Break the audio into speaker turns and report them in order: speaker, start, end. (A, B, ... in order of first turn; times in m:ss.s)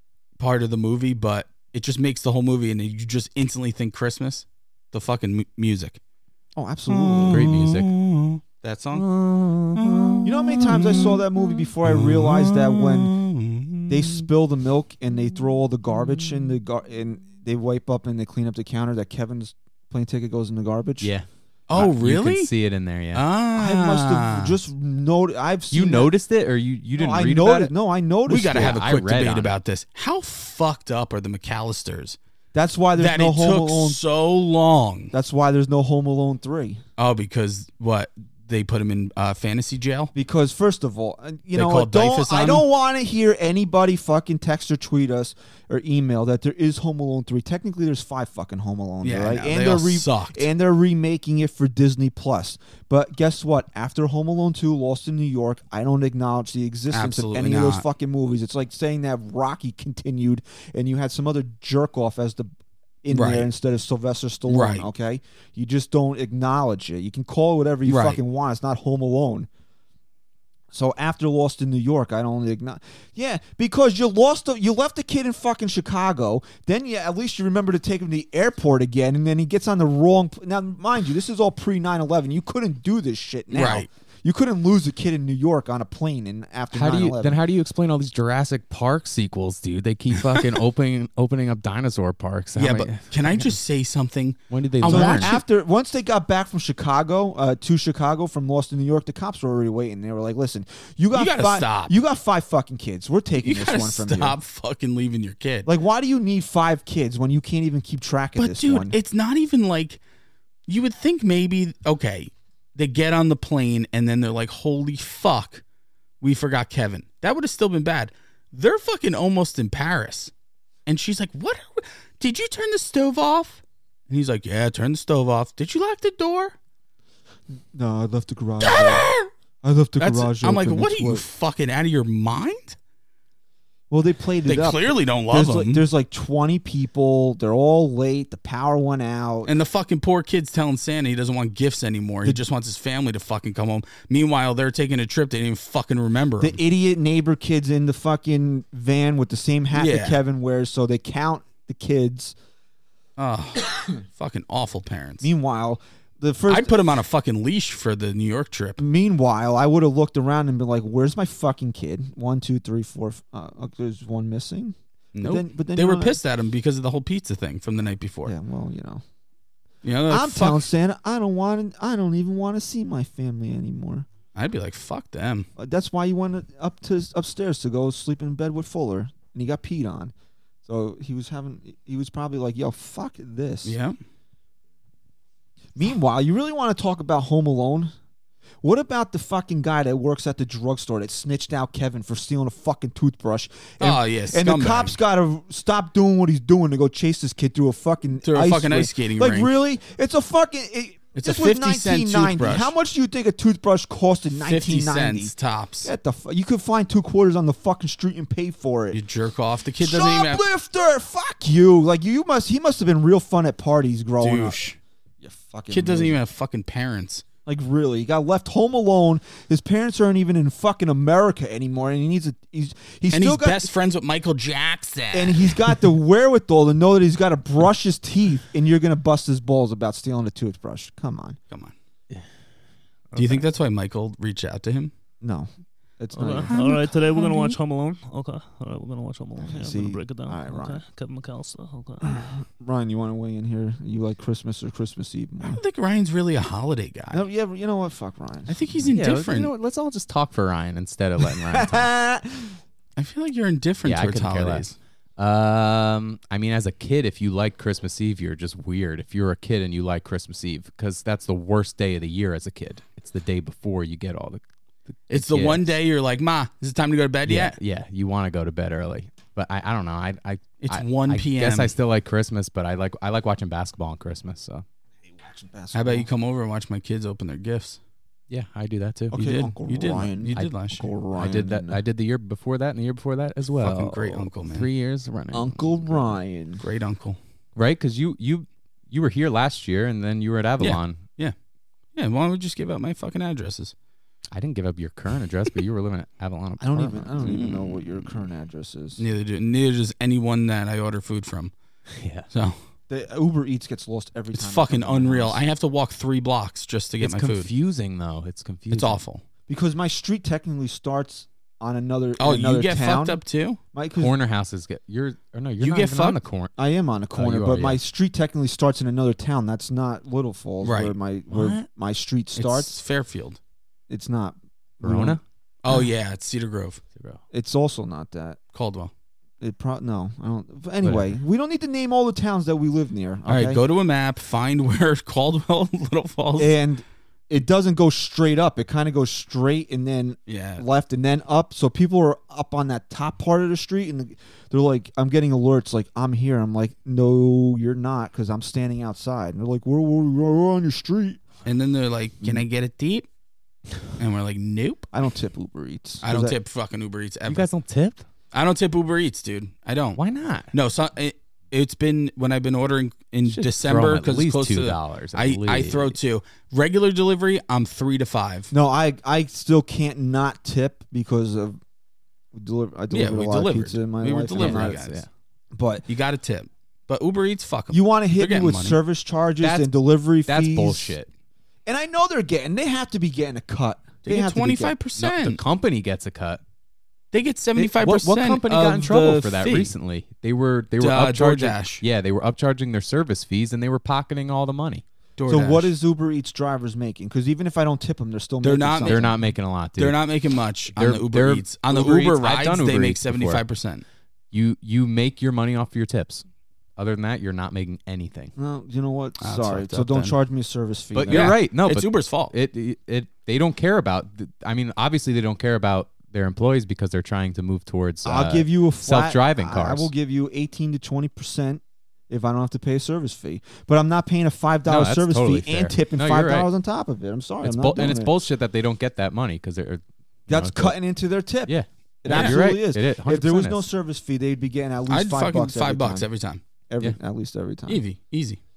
0:00.4-0:06.0 A
0:06.6-0:07.5 B
0:06.9-0:09.1 A
0:07.3-0:07.9 C
0:09.0-0:10.2 C
0:09.8-0:11.3 A
0:10.2-0:13.2 B
0:11.8-0:14.3 A
0:13.9-0:21.1 B
0:21.0-0:23.2 C
0:21.7-0:22.5 A
0:23.2-0:24.6 A
0:23.6-0:26.1 B
0:25.7-0:27.7 C
0:27.0-0:28.8 B
0:28.3-0:32.2 A
0:28.5-0:29.5 C
0:32.5-0:34.0 B
0:33.0-0:35.1 A
0:35.1-0:36.8 B
0:37.0-0:40.1 A
0:40.1-1:02.5 B
0:41.6-0:42.6 A
0:49.0-0:50.5 A
0:56.9-0:57.8 A
1:03.0-1:09.5 B
1:03.1-1:03.5 A
1:04.5-1:04.9 A
1:07.9-1:08.2 A
1:10.7-1:27.4 B
1:23.5-1:23.9 A
1:26.7-1:33.6 C
1:32.6-1:35.4 A
1:34.5-1:35.3 C
1:34.8-1:44.4 B
1:41.1-1:42.0 A
1:43.4-1:45.7 A
1:45.7-1:49.0 B
1:48.4-1:50.0 A
1:50.7-1:55.6 A
1:56.2-2:00.3 A
2:00.9-2:06.5 A
2:07.5-2:09.1 B
2:08.6-2:09.3 A
2:09.6-2:11.2 B
2:10.0-2:12.8 A
2:13.9-2:19.5 B
2:14.5-2:15.8 A
2:19.5-2:26.6 A
2:26.4-2:32.4 B
2:29.7-2:30.2 A
2:33.2-2:35.3 A
2:35.2-2:36.8 B
2:36.5-2:38.8 A
2:38.8-2:46.2 B
2:45.2-2:48.3 A
2:48.3-2:49.0 B
2:49.8-2:50.7 A
2:50.1-2:54.1 B
2:54.4-2:55.5 A
2:55.6-3:00.1 B
3:00.6-3:03.8 B
3:03.6-3:04.0 A
3:05.8-3:07.9 B
3:08.6-3:25.3 B
3:13.8-3:15.0 A
3:18.2-3:19.5 A
3:21.2-3:22.7 A
3:24.4-3:25.9 A
3:25.8-3:29.0 B
3:28.9-3:30.4 A
3:29.8-3:34.6 B
3:34.2-3:34.8 A
3:35.2-3:36.2 B
3:35.7-3:37.2 A
3:37.5-3:43.7 B
3:43.1-3:45.8 A
3:45.1-3:51.4 B
3:53.1-3:53.5 D
3:53.2-3:54.9 A
3:55.2-3:56.9 B
3:56.1-4:02.3 D
3:59.4-4:00.8 B
4:02.1-4:05.6 B
4:05.4-4:07.2 A
4:07.1-4:08.8 B
4:08.5-4:09.5 A
4:08.9-4:11.9 C
4:11.2-4:12.6 B
4:13.0-4:14.8 A
4:13.8-4:14.7 C
4:15.2-4:24.4 C
4:25.1-4:25.7 C
4:25.1-4:27.6 A
4:27.2-4:34.6 C
4:30.6-4:31.7 A
4:35.1-4:36.1 B
4:35.7-4:37.8 A
4:38.3-4:39.2 C
4:39.1-4:41.8 B
4:39.1-4:40.9 A
4:41.1-4:46.0 C
4:43.5-4:44.7 A
4:45.3-4:46.6 B
4:46.6-4:47.2 A
4:47.6-4:51.0 C
4:50.6-4:51.4 A
4:52.0-4:53.8 A
4:54.3-4:57.1 C
4:56.6-4:59.0 B
4:57.2-4:57.9 A
4:59.0-5:01.5 A
5:01.9-5:02.3 C
5:02.3-5:02.6 A
5:02.9-5:05.4 B
5:04.3-5:07.5 A
5:07.0-5:09.0 C
5:08.7-5:09.2 A
5:09.5-5:13.2 B
5:12.2-5:13.6 A
5:13.7-5:14.1 B
5:14.0-5:16.5 C
5:15.6-5:16.2 A
5:16.6-5:22.7 B
5:17.1-5:17.8 C
5:20.6-5:20.9 A
5:21.3-5:21.6 C
5:22.4-5:23.4 A
5:23.9-5:25.2 B
5:24.8-5:25.2 C
5:25.6-5:26.8 A
5:27.3-5:28.4 B
5:28.5-5:28.9 A
5:29.4-5:33.6 B
5:30.8-5:31.2 C
5:33.3-5:36.5 A
5:36.4-5:51.2 B
5:40.3-5:40.6 A
5:51.4-5:53.1 A
5:54.0-5:54.9 A
5:54.9-5:56.4 B
5:56.0-5:57.5 A
5:57.2-5:58.1 C
5:58.3-6:00.0 A
6:00.0-6:00.5 C
6:00.5-6:08.5 A
6:03.2-6:06.0 C
6:08.5-6:11.6 B
6:12.3-6:14.8 B
6:12.9-6:15.0 A
6:14.4-6:15.1 C
6:15.5-6:15.9 B
6:15.9-6:18.8 A
6:17.7-6:20.9 B
6:19.4-6:19.7 C
6:20.2-6:21.1 C
6:21.7-6:24.7 B
6:24.0-6:25.4 A
6:25.0-6:26.4 C
6:27.1-6:29.7 A
6:27.6-6:34.8 C
6:30.8-6:31.8 A
6:35.2-6:35.7 A
6:35.3-6:39.2 B
6:38.4-6:39.2 A
6:38.9-6:40.0 C
6:39.8-6:43.8 A
6:40.7-6:43.4 C
6:44.3-6:46.3 C
6:46.8-6:48.3 C
6:48.4-6:51.4 B
6:49.2-6:50.2 A
6:50.9-6:59.9 C
6:51.1-6:52.3 A
6:58.0-7:08.1 B
7:04.7-7:06.5 C
7:07.4-7:10.8 C
7:10.3-7:16.1 B
7:11.5-7:13.6 C
7:12.1-7:12.4 A
7:14.9-7:16.4 A
7:16.7-7:17.8 B
7:17.7-7:18.4 A